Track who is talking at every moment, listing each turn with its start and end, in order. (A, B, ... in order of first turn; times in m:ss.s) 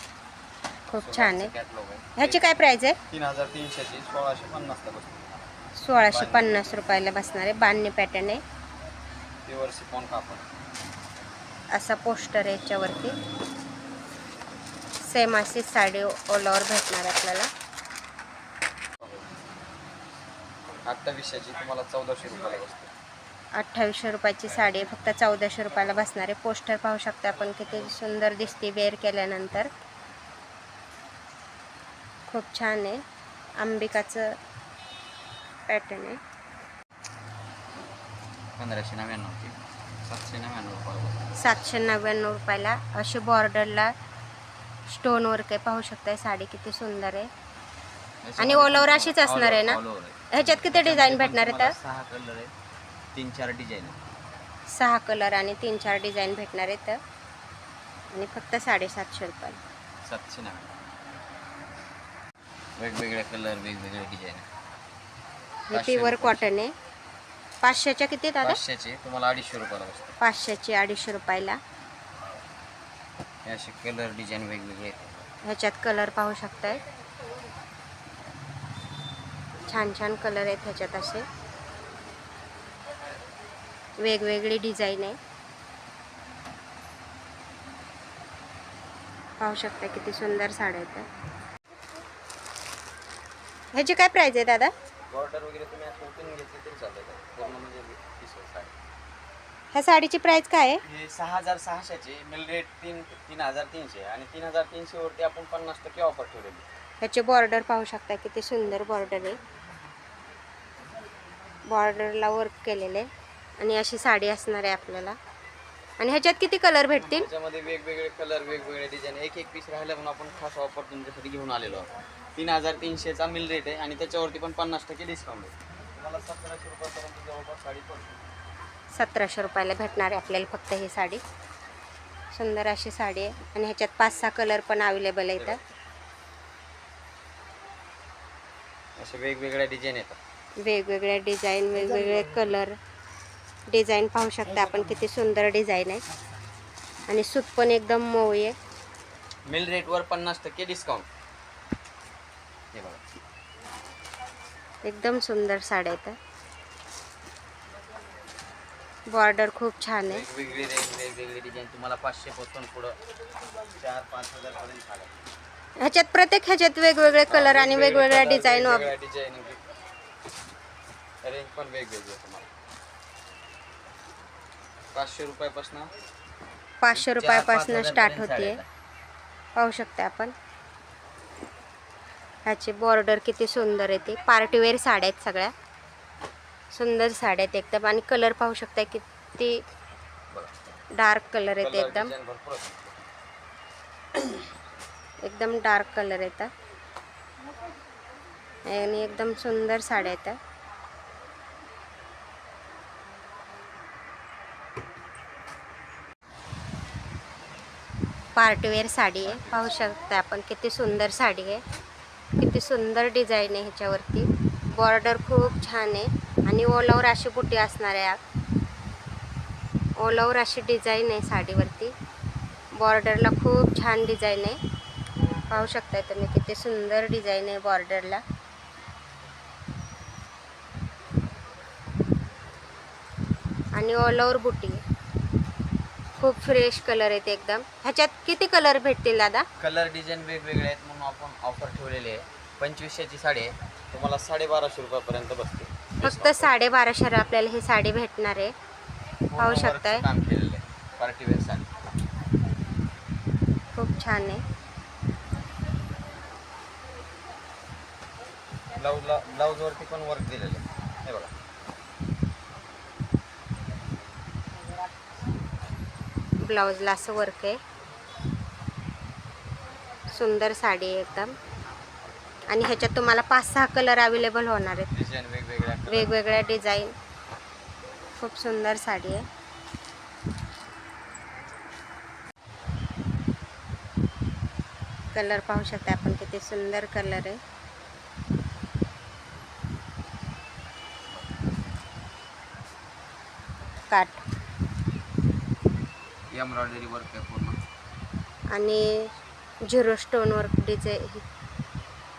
0:00.9-0:01.5 A
0:01.0-0:02.5 B
0:02.2-0:03.0 A
0:03.1-0:05.5 B
0:05.8-0:08.4 A
0:06.0-0:06.7 B
0:09.4-0:10.4 B
0:11.7-0:13.2 A
0:15.1-0:17.5 A
0:19.0-0:19.3 B
0:20.8-0:22.9 B
0:23.6-0:29.7 A
0:32.3-0:33.0 A
0:33.6-0:34.3 A
0:35.7-0:36.2 A
0:38.6-0:41.2 B
0:41.4-0:43.9 A
0:44.9-0:47.3 A
0:48.2-0:52.5 B
0:48.4-0:49.8 A
0:50.3-0:51.7 A
0:53.1-0:54.0 B
0:54.7-0:57.0 A
0:58.1-0:59.6 A
1:00.0-1:00.7 B
1:02.8-1:04.4 B
1:05.7-1:06.7 A
1:05.7-1:06.5 B
1:07.6-1:08.6 A
1:08.4-1:10.2 B
1:10.2-1:11.6 A
1:13.4-1:15.2 B
1:15.4-1:16.8 A
1:19.7-1:21.2 A
1:24.0-1:25.2 A
1:29.4-1:31.0 A
1:33.7-1:34.7 A
1:35.1-1:38.7 B
1:39.7-1:40.8 A
1:40.8-1:46.6 B
1:47.0-1:49.4 A
1:51.7-1:53.1 A
1:53.6-1:55.2 A
1:56.0-1:57.3 A
1:57.0-2:08.2 B
2:08.9-2:11.2 A
2:12.4-2:15.6 A
2:19.0-2:20.2 B
2:20.6-2:22.8 A
2:23.7-2:26.0 A
2:27.1-2:28.5 A
2:29.5-2:31.0 B
2:32.7-2:33.0 B
2:34.8-2:36.2 A
2:39.1-2:40.2 A
2:40.0-2:43.0 B
2:43.8-2:45.2 B
2:45.8-2:48.9 A
2:47.3-2:49.6 B
2:51.2-2:52.5 B
2:54.9-2:55.9 B
2:56.8-2:58.6 A
2:56.9-2:58.7 B
2:59.6-3:00.3 A
3:02.4-3:05.5 A
3:06.7-3:09.6 A
3:11.0-3:12.1 A
3:11.6-3:13.0 B
3:15.2-3:16.5 A
3:18.7-3:20.4 A
3:28.4-3:31.6 A
3:29.2-3:29.7 B
3:32.4-3:38.2 A
3:40.0-3:41.9 A
3:42.8-3:44.6 A
3:45.5-3:48.2 A
3:53.7-3:54.8 A
3:56.2-3:59.4 A
3:59.6-4:06.5 B
4:06.0-4:08.5 A
4:09.3-4:11.6 B
4:09.4-4:10.0 A
4:13.7-4:14.4 A
4:18.8-4:21.3 B
4:26.4-4:27.6 A
4:30.1-4:31.3 A
4:32.5-4:34.9 A
4:34.9-4:36.2 B
4:35.9-4:36.9 A
4:38.2-4:39.2 A
4:45.1-4:47.4 A
4:53.9-4:54.2 A
4:56.3-4:57.6 B
4:58.5-4:58.9 A
4:59.7-5:01.2 A